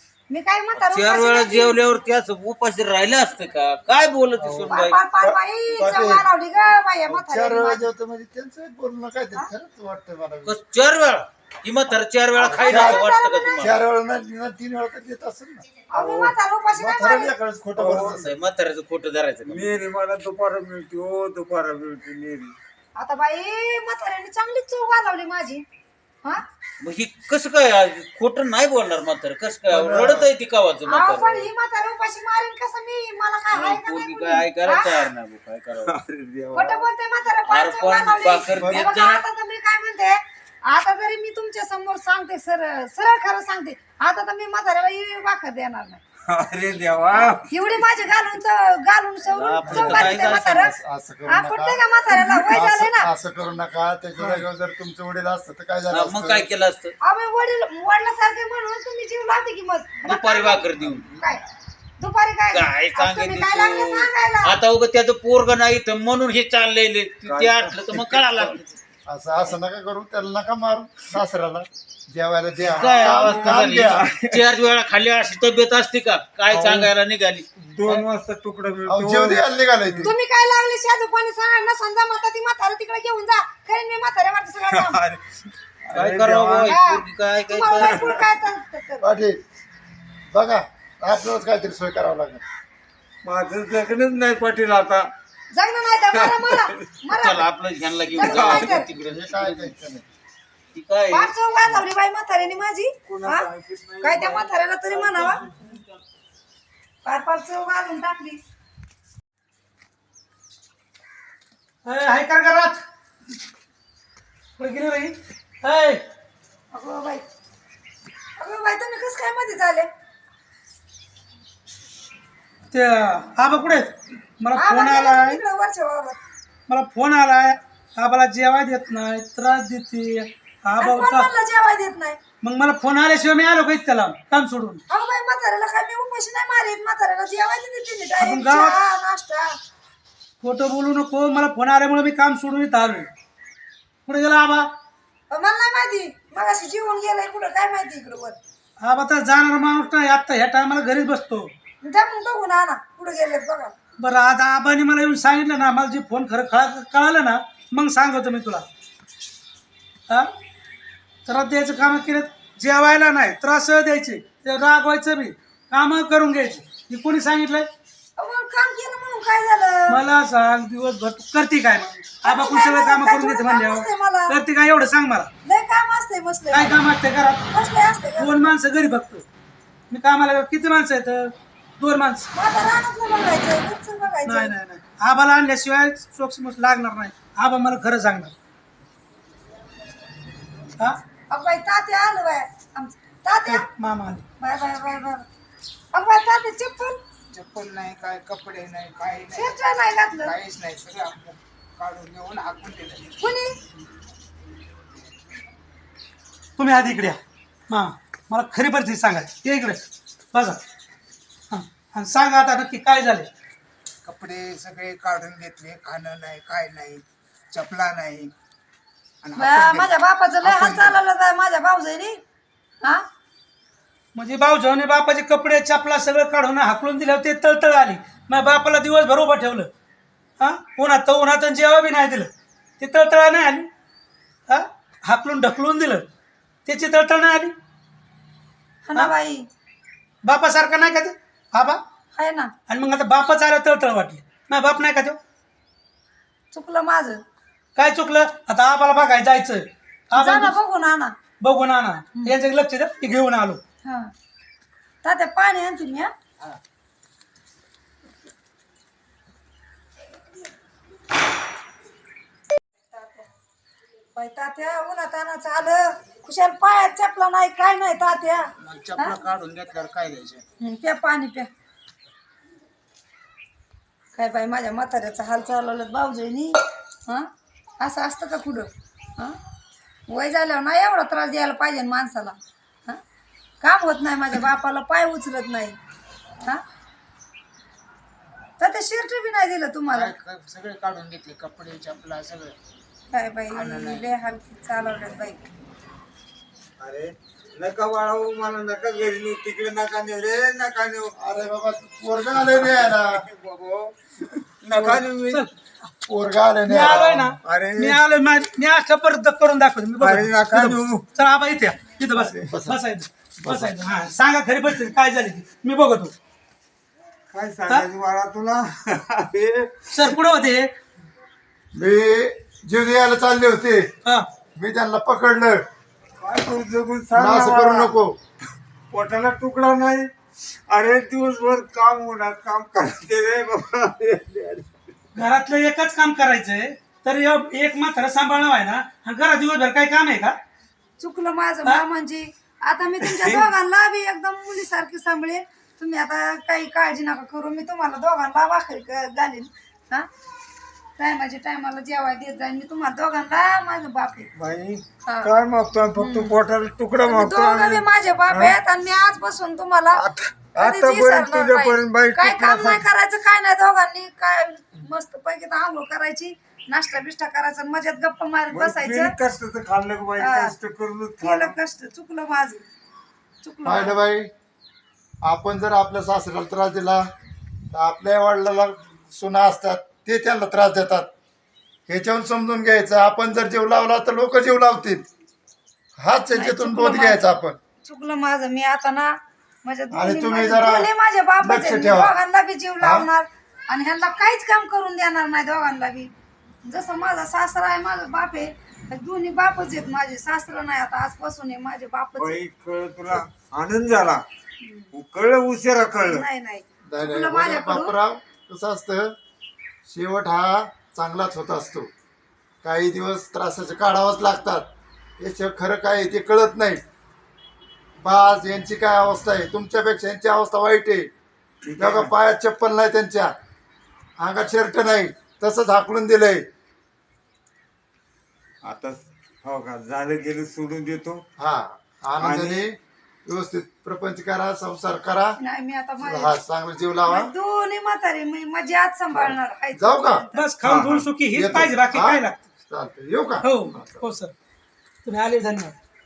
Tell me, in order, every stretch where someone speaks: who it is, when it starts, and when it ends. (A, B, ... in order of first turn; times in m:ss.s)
0:00.3-0:01.8 A
0:00.7-0:05.0 B
0:04.4-0:06.2 C
0:04.7-0:07.9 A
0:07.1-0:10.6 C
0:10.4-0:13.8 B
0:12.4-0:13.0 C
0:12.4-0:13.7 A
0:13.6-0:15.6 C
0:15.9-0:17.3 A
0:15.9-0:16.4 D
0:16.8-0:18.3 C
0:17.8-0:18.3 D
0:18.1-0:19.7 B
0:19.4-0:22.6 D
0:23.0-0:25.6 A
0:26.8-0:31.5 B
0:29.7-0:30.3 C
0:30.9-0:34.9 A
0:33.5-0:35.9 B
0:35.8-0:36.9 D
0:36.5-0:46.0 A
0:37.4-0:39.2 B
0:38.5-0:38.9 C
0:46.3-0:47.8 D
0:47.1-0:50.8 A
0:49.3-0:50.7 B
0:49.6-0:56.5 C
0:51.3-0:53.1 A
0:55.9-0:56.9 B
0:57.0-1:01.4 A
1:00.0-1:01.2 B
1:02.0-1:04.6 A
1:02.5-1:08.8 B
1:07.2-1:08.0 D
1:09.1-1:14.0 C
1:12.7-1:14.4 D
1:12.7-1:18.0 B
1:16.5-1:16.9 D
1:17.6-1:20.1 D
1:18.9-1:20.1 C
1:20.0-1:25.0 A
1:24.7-1:26.8 D
1:25.9-1:28.1 B
1:26.6-1:29.1 A
1:27.8-1:28.2 D
1:29.0-1:29.4 C
1:30.3-1:32.4 C
1:33.2-1:35.1 D
1:35.5-1:37.5 A
1:36.2-1:36.8 D
1:37.1-1:39.7 B
1:38.1-1:38.9 A
1:38.2-1:38.5 D
1:38.4-1:40.0 C
1:40.7-1:41.3 B
1:41.1-1:43.5 A
1:43.0-1:45.7 D
1:44.0-1:45.4 A
1:47.0-1:48.4 A
1:51.8-1:52.8 E
1:54.6-1:56.0 E
1:56.7-1:57.2 A
1:58.4-1:59.9 A
2:02.7-2:05.4 E
2:04.5-2:06.2 A
2:06.7-2:11.3 E
2:10.8-2:12.2 A
2:12.4-2:14.8 E
2:14.9-2:19.6 A
2:18.2-2:18.8 E
2:20.4-2:23.1 E
2:24.1-2:24.7 E
2:25.3-2:28.4 A
2:28.8-2:31.5 E
2:31.8-2:33.7 A
2:34.0-2:38.6 E
2:41.2-2:47.7 E
2:48.2-2:50.0 A
2:49.9-2:55.3 E
2:52.2-2:54.4 A
2:55.4-2:56.7 A
2:56.5-2:57.4 E
2:57.5-2:58.5 A
2:58.2-2:59.2 E
2:59.9-3:02.3 E
3:02.3-3:04.5 A
3:04.2-3:08.3 E
3:11.3-3:13.6 A
3:13.5-3:14.2 E
3:14.4-3:15.2 A
3:15.9-3:17.0 A
3:17.3-3:19.5 D
3:17.4-3:19.3 F
3:19.3-3:20.4 A
3:20.3-3:23.0 D
3:20.7-3:21.3 F
3:22.1-3:22.9 F
3:23.2-3:23.6 A
3:26.6-3:29.8 E
3:30.3-3:30.6 E
3:31.5-3:33.3 E
3:34.0-3:37.0 F
3:34.5-3:36.9 D
3:37.5-3:38.2 D
3:38.0-3:38.3 F
3:39.4-3:42.2 A
3:40.5-3:40.9 D
3:44.1-3:49.7 E
3:50.4-3:53.7 E
3:54.5-3:56.0 E
3:56.6-3:57.5 E
3:58.8-3:59.5 A
4:00.2-4:01.8 E
4:02.2-4:02.5 A
4:02.7-4:05.2 E
4:06.5-4:07.2 A
4:07.8-4:10.5 E
4:10.1-4:11.2 A
4:11.4-4:13.6 E
4:13.8-4:14.1 A
4:15.0-4:16.1 A
4:22.9-4:23.3 A
4:24.1-4:29.2 A
4:28.6-4:30.4 F
4:29.1-4:30.3 D
4:30.6-4:31.5 A
4:34.1-4:37.3 A
4:37.8-4:39.4 A
4:40.1-4:43.0 A
4:43.6-4:45.8 A
4:48.6-4:50.1 A
4:50.0-4:52.5 D
4:50.8-4:51.1 F
4:53.1-4:55.4 A
4:53.5-4:54.0 D
4:56.8-5:01.1 D
5:01.2-5:03.2 C
5:02.4-5:04.0 D
5:04.6-5:05.4 D
5:04.7-5:05.0 C
5:06.0-5:07.3 C
5:06.7-5:16.1 E
5:06.9-5:08.0 D
5:10.0-5:11.0 D
5:12.2-5:12.8 C
5:13.4-5:13.7 C
5:17.3-5:19.9 D
5:19.9-5:20.7 E
5:21.7-5:23.9 C
5:24.6-5:25.6 C
5:26.2-5:27.9 D
5:27.1-5:28.2 C
5:28.9-5:30.1 D
5:30.7-5:34.9 D
5:35.2-5:40.4 E
5:41.0-5:50.1 A
5:43.0-5:43.4 D
5:51.0-5:54.3 A
5:54.3-5:58.6 D
5:55.0-5:55.3 A
5:56.0-5:56.4 A
5:57.0-6:09.1 A
5:59.9-6:02.9 D
6:08.5-6:11.6 D
6:10.2-6:10.5 A
6:11.2-6:12.6 A
6:13.4-6:14.0 A
6:13.6-6:14.3 C
6:15.2-6:17.1 C
6:17.7-6:21.1 C
6:21.9-6:25.0 C
6:26.0-6:27.6 C
6:26.3-6:27.2 A
6:27.8-6:36.1 A
6:29.9-6:30.9 C
6:31.4-6:32.1 C
6:32.8-6:33.1 C
6:36.6-6:42.4 A
6:42.2-6:44.2 D
6:44.6-6:44.9 A
6:44.9-6:46.2 D
6:45.9-6:47.9 A
6:46.8-6:49.2 C
6:49.8-6:51.9 C
6:52.6-6:54.6 C
6:55.2-6:56.8 C
6:58.0-7:01.1 C
7:01.6-7:02.1 D
7:01.8-7:03.3 C
7:04.2-7:06.4 C
7:08.6-7:11.2 D
7:11.4-7:15.4 C
7:12.2-7:12.6 D
7:15.4-7:16.4 A
7:16.0-7:17.3 C
7:17.0-7:20.4 A
7:19.1-7:20.2 C
7:20.4-7:22.4 E
7:20.6-7:21.1 D
7:21.3-7:24.0 C
7:23.4-7:24.3 E
7:25.0-7:25.7 E